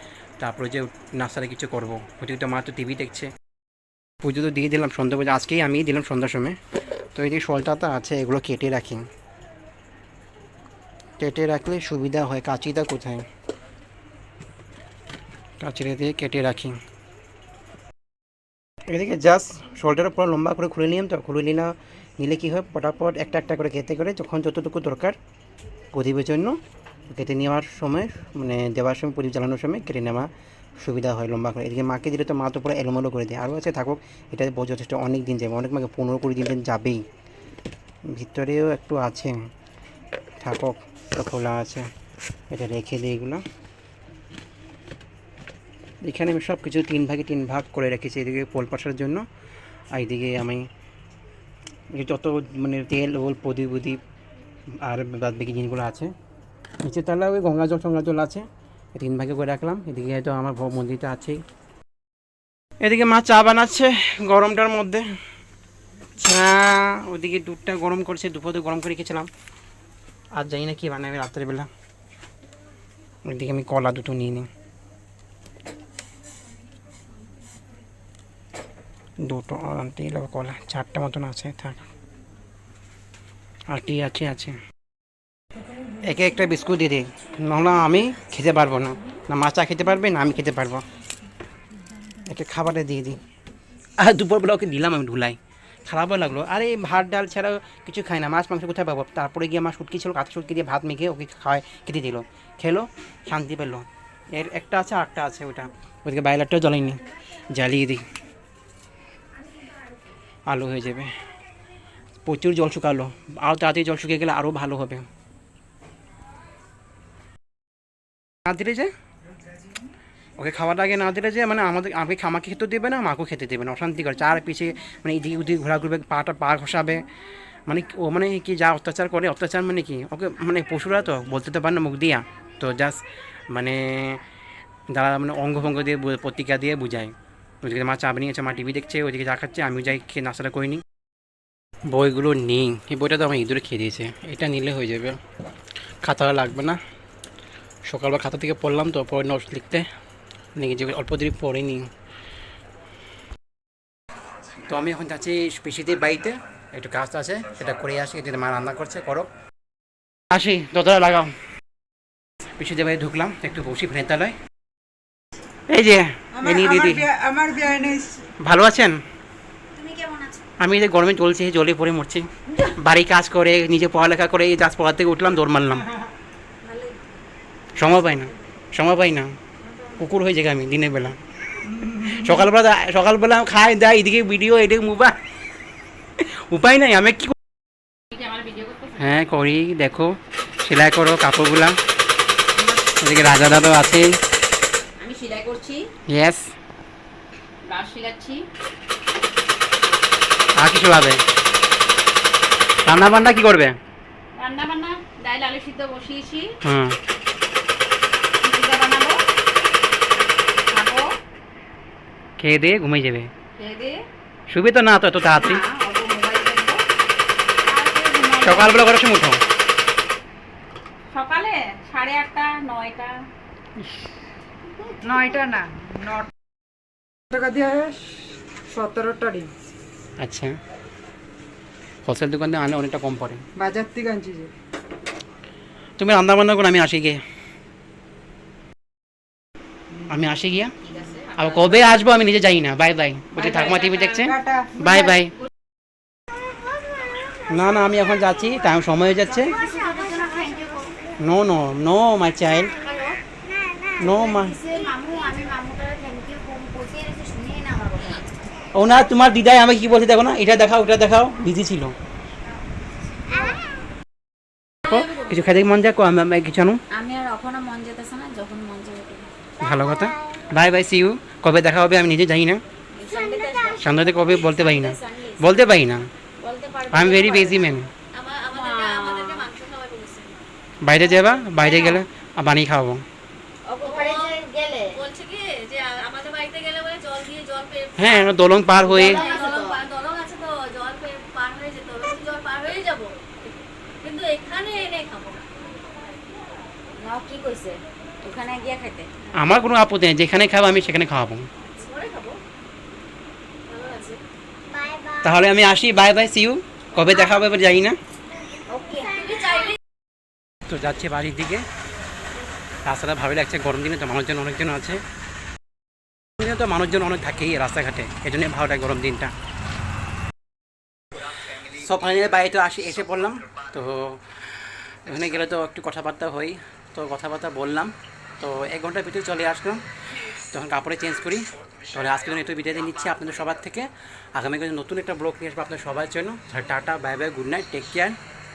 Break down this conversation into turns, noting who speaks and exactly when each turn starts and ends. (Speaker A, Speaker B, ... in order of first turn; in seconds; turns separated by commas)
Speaker A: 0.4-3.3, Speaker A: 4.2-6.6, Speaker A: 7.1-9.1, Speaker A: 11.2-13.2, Speaker A: 15.6-16.8, Speaker A: 18.9-25.1, Speaker A: 25.9-26.6, Speaker A: 27.1-37.0, Speaker A: 38.1-39.4, Speaker A: 40.4-41.9, Speaker A: 42.5-43.4, Speaker A: 46.0-49.2, Speaker A: 49.9-50.7, Speaker A: 51.9-54.0, Speaker A: 54.8-56.1, Speaker A: 56.8-61.4, Speaker A: 62.8-65.0, Speaker A: 66.2-69.3, Speaker A: 70.3-71.7, Speaker A: 73.2-74.5, Speaker A: 79.2-81.8, Speaker A: 83.7-84.5, Speaker A: 86.0-90.8, Speaker A: 92.2-93.2, Speaker A: 94.0-108.0, Speaker A: 110.5-111.1, Speaker A: 112.2-115.0, Speaker A: 118.4-118.9, Speaker A: 120.4-127.0, Speaker A: 127.7-134.2, Speaker A: 134.9-140.8, Speaker A: 141.9-145.2, Speaker A: 146.0-146.8, Speaker A: 147.8-149.9, Speaker A: 150.5-151.9, Speaker A: 154.7-159.3, Speaker A: 160.3-161.3, Speaker A: 162.6-164.3, Speaker A: 165.7-167.1, Speaker B: 166.3-168.3, Speaker A: 168.4-169.0, Speaker C: 169.8-170.4, Speaker A: 170.6-175.8, Speaker C: 176.7-176.9, Speaker A: 177.8-179.3, Speaker A: 179.9-181.2, Speaker A: 181.8-185.2, Speaker A: 186.2-187.3, Speaker D: 188.1-189.1, Speaker A: 189.0-191.8, Speaker A: 192.8-194.2, Speaker D: 195.0-195.9, Speaker A: 196.1-196.5, Speaker D: 197.6-198.4, Speaker A: 200.5-201.2, Speaker A: 202.8-203.8, Speaker D: 204.3-206.6, Speaker A: 206.6-207.0, Speaker D: 208.4-209.2, Speaker D: 210.7-211.1, Speaker A: 212.4-213.3, Speaker D: 213.6-214.0, Speaker A: 214.5-215.6, Speaker D: 215.3-216.8, Speaker D: 217.7-218.8, Speaker A: 218.4-219.4, Speaker D: 221.1-223.3, Speaker B: 225.0-226.3, Speaker B: 227.3-229.5, Speaker A: 230.2-230.5, Speaker A: 232.0-233.4, Speaker B: 233.6-234.5, Speaker A: 236.0-237.2, Speaker A: 240.1-240.7, Speaker D: 240.9-241.9, Speaker A: 241.3-245.3, Speaker D: 243.6-244.2, Speaker B: 244.2-245.1, Speaker A: 247.5-249.6, Speaker C: 249.2-250.9, Speaker A: 251.2-252.8, Speaker E: 252.8-253.2, Speaker A: 254.0-254.6, Speaker C: 254.0-258.3, Speaker A: 258.7-261.9, Speaker C: 263.3-263.6, Speaker A: 264.8-266.8, Speaker C: 264.9-265.4, Speaker C: 266.9-269.3, Speaker A: 269.6-272.6, Speaker C: 272.9-275.5, Speaker A: 273.8-276.1, Speaker C: 276.4-277.8, Speaker A: 276.9-277.9, Speaker E: 278.1-280.4, Speaker C: 278.5-279.5, Speaker A: 280.8-283.0, Speaker C: 280.9-282.1, Speaker C: 283.6-285.0, Speaker E: 283.8-284.4, Speaker E: 284.9-288.3, Speaker A: 288.0-289.2, Speaker C: 288.8-289.8, Speaker E: 288.8-293.4, Speaker E: 294.0-295.6, Speaker C: 297.0-299.1, Speaker A: 299.3-301.5, Speaker E: 301.8-302.4, Speaker E: 303.7-304.2, Speaker A: 305.2-308.0, Speaker C: 308.7-309.4, Speaker E: 309.2-309.8, Speaker A: 310.6-311.6, Speaker A: 312.9-315.0, Speaker A: 316.4-319.3, Speaker A: 321.5-324.3, Speaker A: 325.0-338.2